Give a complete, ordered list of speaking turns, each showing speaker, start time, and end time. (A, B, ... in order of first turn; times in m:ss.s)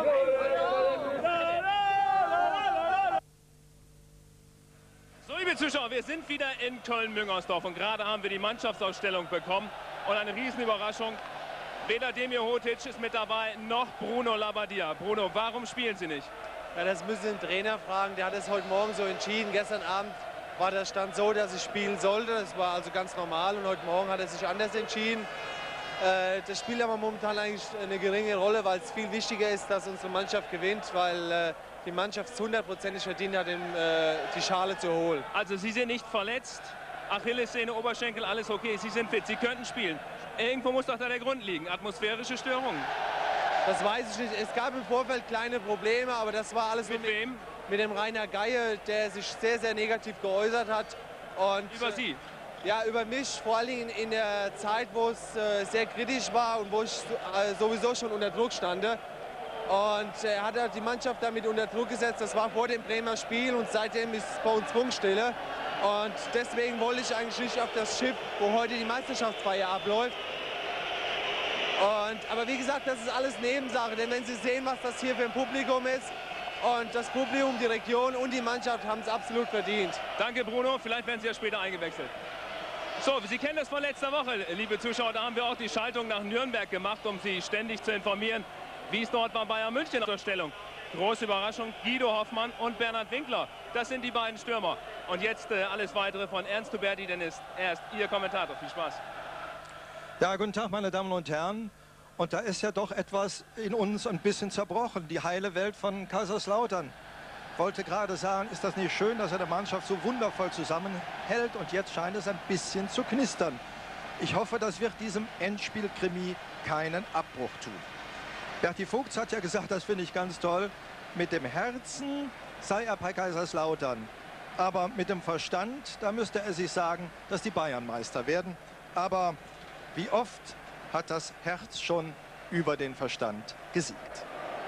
0:05.2-0:11.2 A
0:11.8-0:16.3 A
0:16.7-0:25.3 B
0:26.0-0:35.2 B
0:35.3-0:42.9 A
0:43.6-0:47.2 B
0:46.8-0:47.4 A
0:47.7-0:52.0 B
0:51.7-0:52.2 A
0:52.6-0:59.0 B
0:59.7-1:10.2 B
1:11.8-1:20.0 B
1:20.2-1:22.1 A
1:23.0-1:39.0 A
1:40.2-1:46.9 C
1:47.6-1:53.6 C
1:54.2-1:57.8 C
1:58.6-2:09.4 C
2:09.9-2:14.2 C